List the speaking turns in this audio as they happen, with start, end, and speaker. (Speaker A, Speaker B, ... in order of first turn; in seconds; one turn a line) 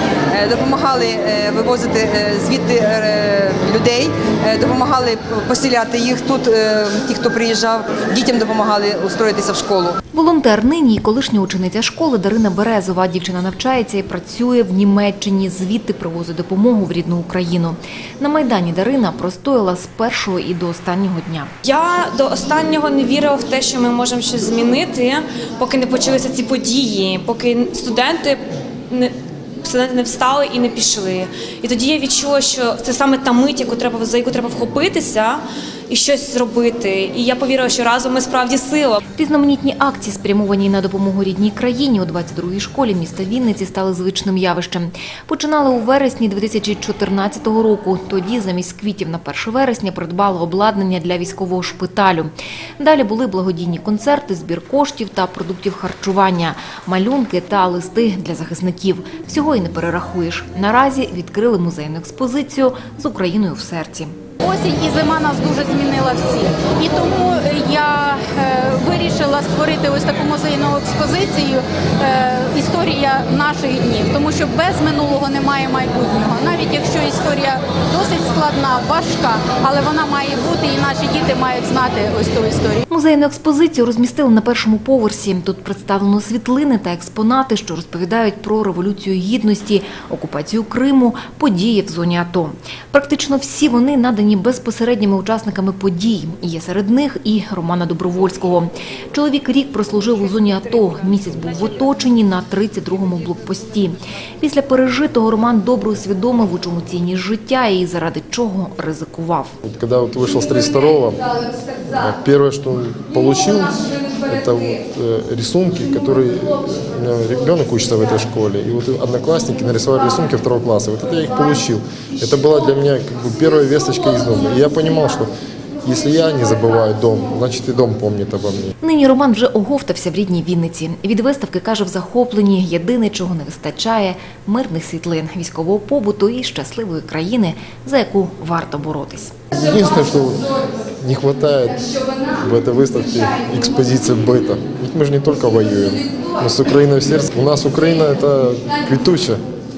Speaker A: 0.3-9.9
Speaker B: 10.1-21.5
Speaker C: 21.6-39.0
Speaker B: 39.1-64.1
Speaker D: 64.4-82.8
Speaker B: 82.9-109.5
Speaker E: 109.6-125.3
Speaker E: 125.8-128.7
Speaker B: 128.8-139.3
Speaker E: 139.5-149.4